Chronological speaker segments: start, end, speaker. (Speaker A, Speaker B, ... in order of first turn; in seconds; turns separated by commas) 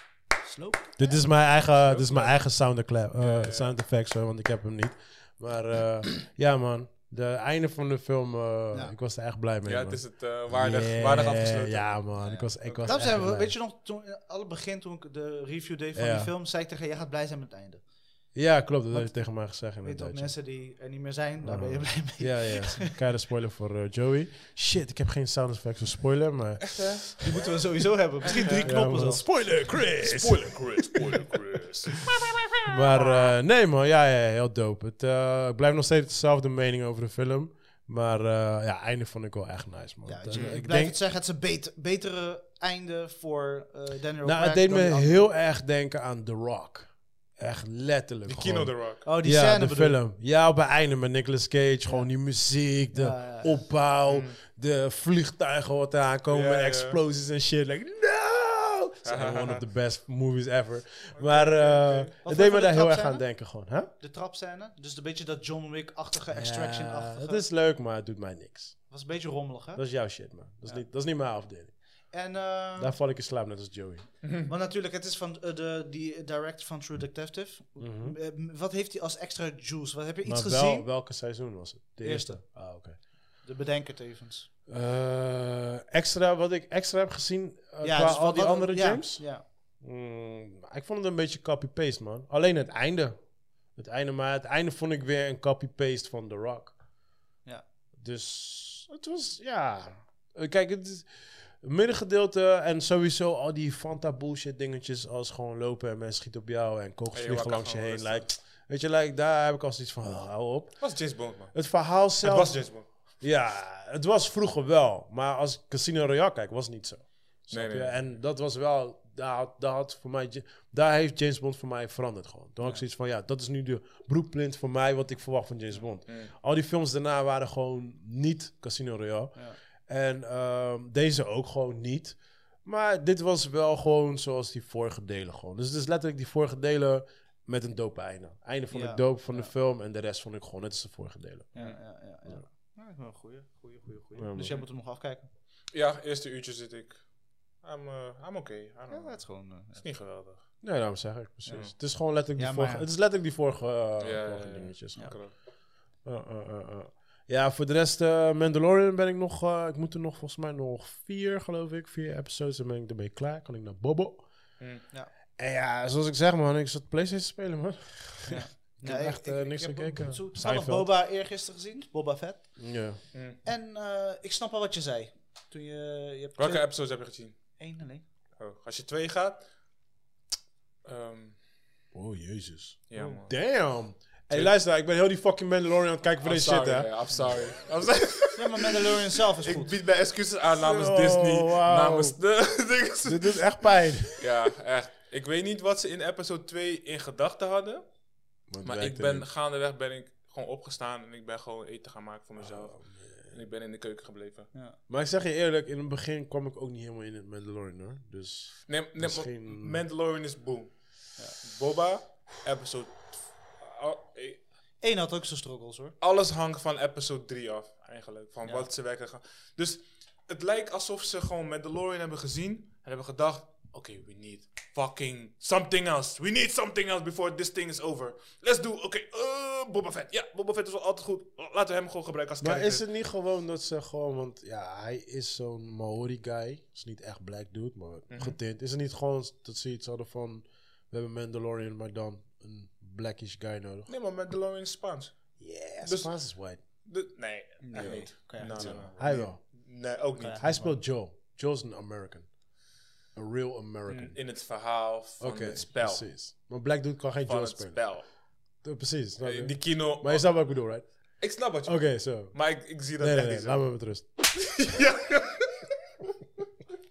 Speaker A: 0.5-1.2, Speaker B: 1.0-13.6, Speaker C: 1.7-2.5, Speaker C: 3.2-3.7, Speaker C: 9.7-13.2, Speaker A: 12.2-17.8, Speaker B: 15.9-16.3, Speaker B: 18.3-20.4, Speaker A: 18.9-22.9, Speaker B: 21.4-27.3, Speaker C: 26.7-27.0, Speaker A: 27.2-29.3, Speaker B: 28.6-31.4, Speaker C: 30.0-32.5, Speaker B: 32.6-41.0, Speaker A: 32.9-33.3, Speaker A: 40.0-45.3, Speaker C: 40.3-40.6, Speaker B: 44.2-63.9, Speaker C: 48.3-49.0, Speaker A: 49.0-50.0, Speaker A: 51.9-52.1, Speaker A: 52.9-53.6, Speaker C: 54.1-54.4, Speaker C: 56.3-57.0, Speaker C: 59.0-59.6, Speaker C: 61.1-62.1, Speaker A: 62.2-63.3, Speaker A: 64.0-67.5, Speaker B: 66.3-68.8, Speaker A: 68.9-69.8, Speaker B: 69.8-71.8, Speaker A: 72.1-73.0, Speaker B: 72.8-74.1, Speaker C: 74.2-74.5, Speaker A: 74.5-80.9, Speaker B: 77.8-78.2, Speaker B: 80.2-83.0, Speaker A: 82.0-84.5, Speaker B: 84.7-96.8, Speaker A: 87.8-89.4, Speaker B: 97.9-141.5, Speaker C: 107.1-108.3, Speaker C: 110.8-112.9, Speaker C: 117.5-118.0, Speaker C: 126.1-126.3, Speaker A: 138.7-139.5, Speaker A: 141.5-145.3, Speaker B: 144.2-144.6, Speaker C: 145.7-150.5, Speaker A: 148.9-149.8, Speaker B: 150.6-155.3, Speaker A: 151.4-151.7, Speaker A: 152.3-152.9, Speaker C: 154.0-155.3, Speaker B: 156.0-164.3, Speaker B: 165.4-170.9, Speaker A: 168.3-172.6, Speaker B: 172.6-173.0, Speaker C: 173.1-173.4, Speaker A: 173.4-176.7, Speaker C: 176.4-177.4, Speaker A: 177.6-178.1, Speaker C: 178.4-179.5, Speaker C: 180.8-181.4, Speaker B: 181.9-187.0, Speaker C: 182.9-183.3, Speaker C: 186.2-193.4, Speaker A: 188.3-189.7, Speaker B: 190.6-192.2, Speaker B: 193.0-194.3, Speaker C: 194.2-197.8, Speaker B: 198.5-199.3, Speaker C: 198.6-204.5, Speaker B: 202.4-203.3, Speaker B: 204.9-209.8, Speaker C: 208.7-214.4, Speaker A: 214.8-215.9, Speaker C: 216.0-232.8, Speaker B: 232.4-243.9, Speaker C: 238.1-238.4, Speaker C: 243.9-245.2, Speaker B: 245.4-246.6, Speaker C: 245.8-246.1, Speaker C: 246.8-250.5, Speaker A: 247.6-249.3, Speaker B: 247.8-249.4, Speaker A: 250.2-250.8, Speaker B: 250.4-252.3, Speaker B: 253.1-254.2, Speaker C: 253.9-256.1, Speaker B: 255.2-258.1, Speaker C: 257.3-258.1, Speaker B: 258.6-264.1, Speaker C: 259.2-260.6, Speaker C: 261.2-263.7, Speaker C: 264.4-265.7